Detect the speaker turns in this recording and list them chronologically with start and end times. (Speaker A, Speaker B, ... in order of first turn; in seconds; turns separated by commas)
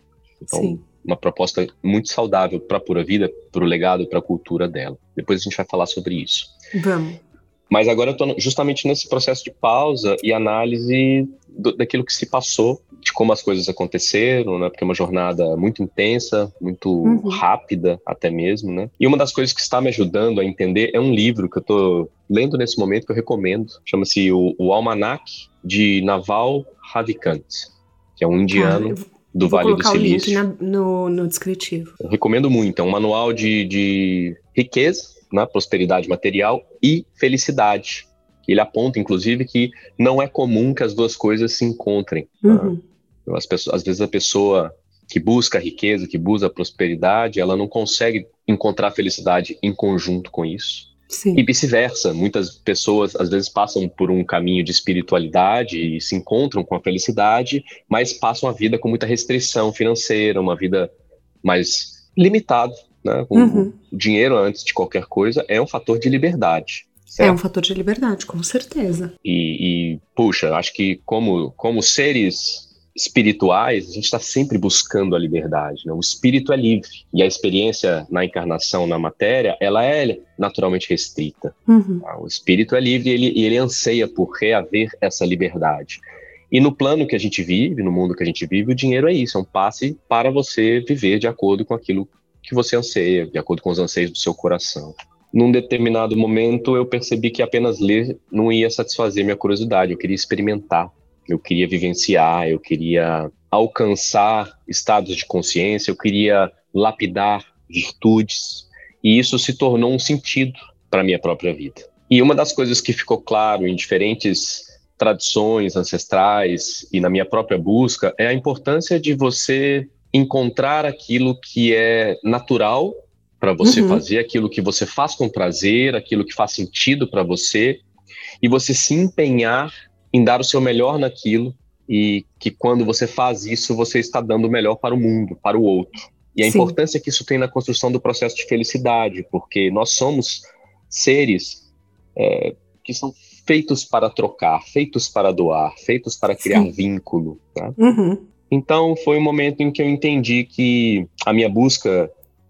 Speaker A: 0.4-6.5, Speaker B: 0.5-0.8, Speaker B: 6.7-7.2, Speaker A: 7.7-30.4, Speaker B: 17.0-17.4, Speaker B: 28.5-31.9, Speaker A: 32.0-42.8, Speaker B: 42.4-42.8, Speaker A: 43.3-60.9, Speaker B: 51.1-51.4, Speaker A: 61.4-67.4, Speaker B: 63.3-63.8, Speaker B: 67.2-69.1, Speaker A: 69.2-127.8, Speaker B: 81.7-82.0, Speaker B: 123.6-124.0, Speaker A: 128.4-141.7, Speaker B: 136.4-136.8, Speaker A: 142.2-147.8, Speaker B: 147.8-148.2, Speaker A: 148.5-152.1